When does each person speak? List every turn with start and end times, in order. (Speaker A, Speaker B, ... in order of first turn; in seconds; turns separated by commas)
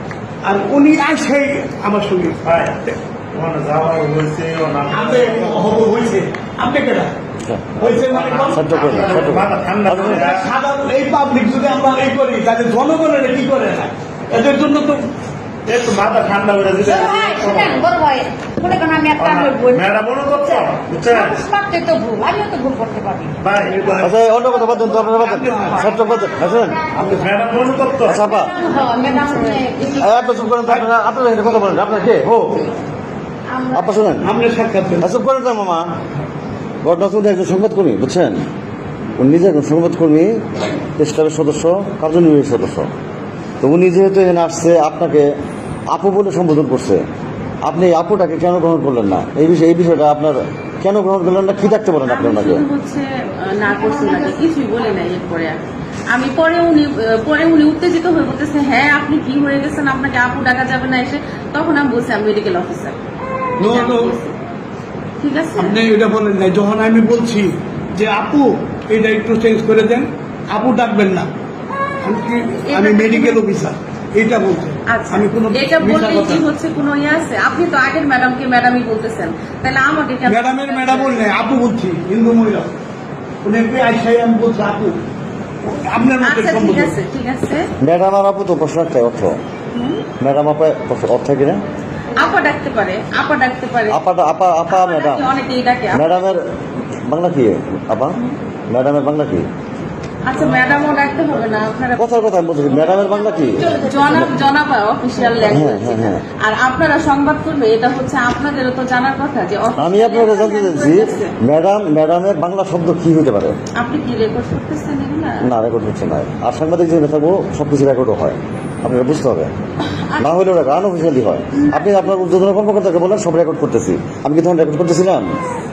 Speaker A: 0.4-3.0, Speaker B: 2.4-5.8, Speaker A: 4.9-7.1, Speaker C: 7.4-7.8, Speaker A: 7.8-8.8, Speaker B: 7.8-10.5, Speaker C: 8.5-10.3, Speaker A: 9.9-15.0, Speaker B: 15.7-17.9, Speaker D: 16.8-23.4, Speaker B: 19.2-21.4, Speaker B: 23.4-24.1, Speaker A: 23.6-25.9, Speaker C: 24.0-27.2, Speaker B: 27.0-28.3, Speaker C: 28.0-28.5, Speaker D: 28.2-30.4, Speaker C: 29.8-32.7, Speaker D: 33.5-34.0, Speaker C: 33.7-34.3, Speaker A: 34.2-35.1, Speaker C: 35.0-35.9, Speaker C: 36.8-38.4, Speaker C: 39.2-40.4, Speaker C: 41.0-42.9, Speaker C: 43.6-45.3, Speaker C: 45.9-47.0, Speaker C: 47.6-52.6, Speaker E: 52.0-55.6, Speaker E: 56.1-63.0, Speaker E: 63.6-64.3, Speaker A: 63.6-64.1, Speaker E: 65.2-65.8, Speaker A: 65.6-71.3, Speaker A: 72.0-76.4, Speaker E: 72.6-73.4, Speaker E: 74.8-81.2, Speaker A: 80.2-82.7, Speaker A: 83.4-85.0, Speaker A: 85.6-86.9, Speaker E: 86.2-87.7, Speaker C: 87.8-89.4, Speaker E: 89.7-90.0, Speaker C: 90.2-91.6, Speaker E: 92.2-94.0, Speaker C: 93.9-95.3, Speaker E: 94.7-96.3, Speaker C: 95.9-96.4, Speaker C: 97.1-98.2, Speaker C: 98.7-99.5, Speaker E: 100.2-111.3, Speaker C: 102.0-104.3, Speaker C: 105.4-106.2, Speaker C: 109.8-113.5, Speaker E: 113.8-115.5, Speaker C: 115.4-119.5, Speaker E: 119.9-120.4, Speaker C: 120.2-125.3, Speaker E: 121.5-122.2